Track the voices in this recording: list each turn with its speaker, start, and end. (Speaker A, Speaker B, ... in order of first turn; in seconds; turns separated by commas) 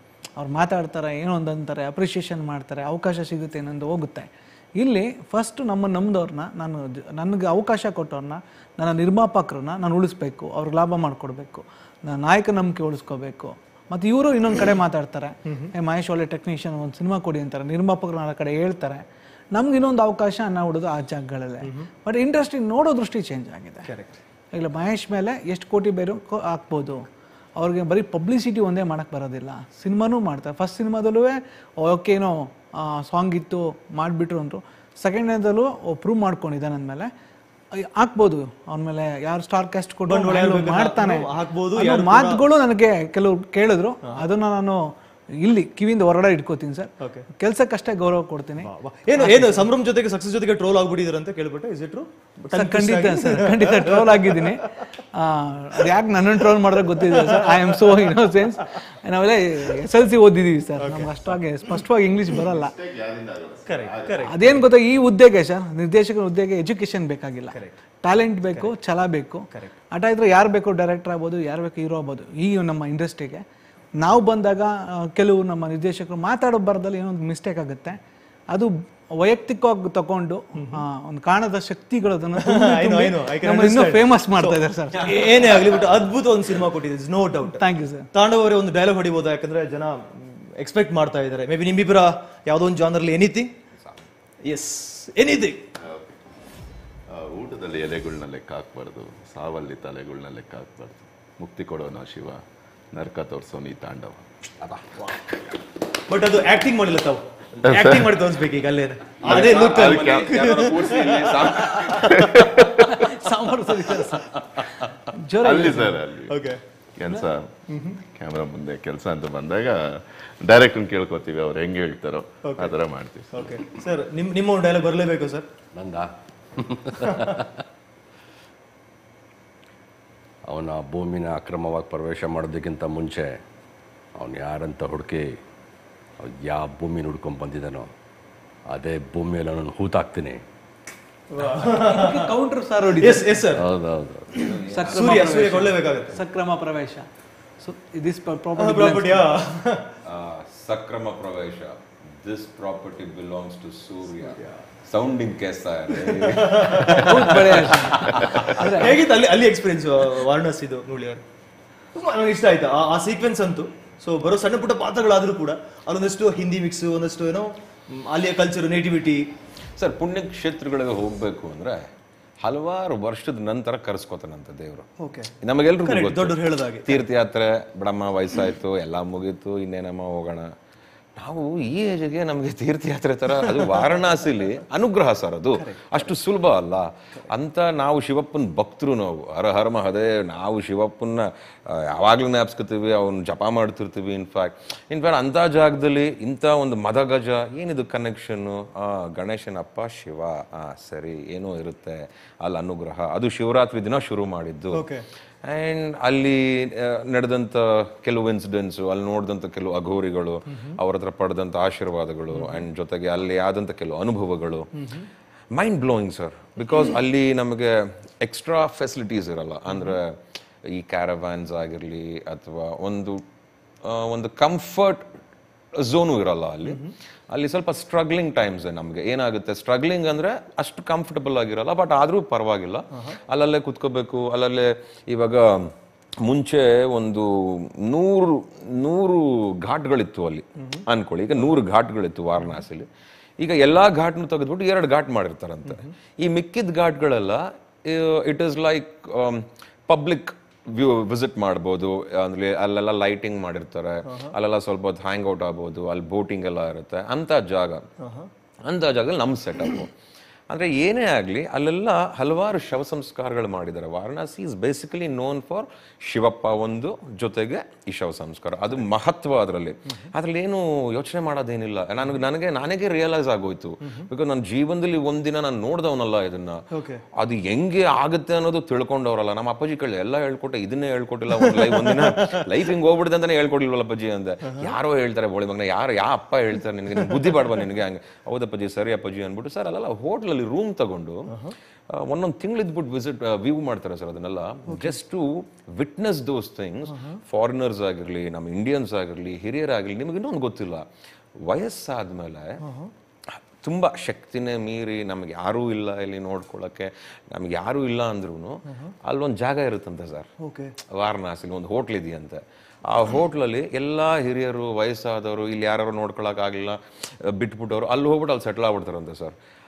Speaker A: 0.4-23.9, Speaker B: 23.9-24.2, Speaker A: 24.5-37.1, Speaker A: 37.8-44.9, Speaker B: 40.1-42.4, Speaker A: 45.4-49.7, Speaker B: 48.6-54.5, Speaker A: 52.5-62.7, Speaker B: 57.1-58.1, Speaker B: 60.8-61.1, Speaker C: 62.5-64.2, Speaker B: 63.6-64.6, Speaker A: 64.2-73.4, Speaker B: 67.5-67.8, Speaker A: 74.0-78.0, Speaker A: 78.5-85.6, Speaker B: 80.6-80.8, Speaker B: 82.4-87.6, Speaker A: 87.5-88.0, Speaker B: 88.1-93.5, Speaker B: 94.5-95.5, Speaker C: 95.8-96.1, Speaker C: 97.1-104.2, Speaker D: 104.6-105.2, Speaker B: 106.1-112.3, Speaker C: 107.7-108.1, Speaker D: 109.2-112.5, Speaker C: 112.1-112.9, Speaker A: 112.8-114.4, Speaker A: 115.2-116.1, Speaker C: 115.4-116.3, Speaker B: 116.3-116.6, Speaker C: 117.0-117.5, Speaker B: 117.7-118.0, Speaker C: 118.0-123.6, Speaker B: 122.4-122.8, Speaker B: 123.3-125.5, Speaker E: 125.7-127.5, Speaker E: 130.5-133.4, Speaker E: 134.2-135.4, Speaker E: 136.2-137.9, Speaker E: 138.7-140.4, Speaker B: 141.3-142.3, Speaker A: 141.6-143.5, Speaker B: 143.0-143.7, Speaker E: 143.6-144.3, Speaker B: 144.3-146.2, Speaker D: 144.4-145.1, Speaker A: 144.7-147.1, Speaker A: 147.6-149.2, Speaker B: 148.6-149.8, Speaker D: 150.1-158.7, Speaker B: 155.9-157.4, Speaker A: 157.0-158.9, Speaker B: 158.7-161.2, Speaker B: 161.9-169.2, Speaker D: 169.8-171.8, Speaker D: 172.4-174.9, Speaker B: 175.0-175.3, Speaker D: 175.4-180.5, Speaker B: 175.8-177.1, Speaker D: 181.2-191.3, Speaker B: 183.4-183.8, Speaker B: 185.5-186.1, Speaker D: 191.9-204.8, Speaker B: 204.7-205.0, Speaker D: 205.4-214.7, Speaker B: 212.3-212.7, Speaker B: 214.8-215.1, Speaker D: 215.5-220.1, Speaker B: 219.7-220.0, Speaker D: 220.7-223.2, Speaker D: 223.8-225.0, Speaker D: 225.8-235.7, Speaker B: 226.6-226.9, Speaker D: 236.2-242.9, Speaker D: 243.4-257.9, Speaker B: 254.1-254.3, Speaker B: 258.0-258.3, Speaker D: 258.7-259.9, Speaker D: 260.5-276.6, Speaker B: 276.7-277.0, Speaker D: 277.2-291.3, Speaker B: 281.4-282.4, Speaker B: 287.1-287.5, Speaker D: 291.9-300.9, Speaker B: 294.7-295.0, Speaker B: 296.9-297.2, Speaker D: 301.4-302.6, Speaker B: 302.6-302.9, Speaker D: 303.6-310.3, Speaker B: 310.4-310.7, Speaker D: 310.9-319.3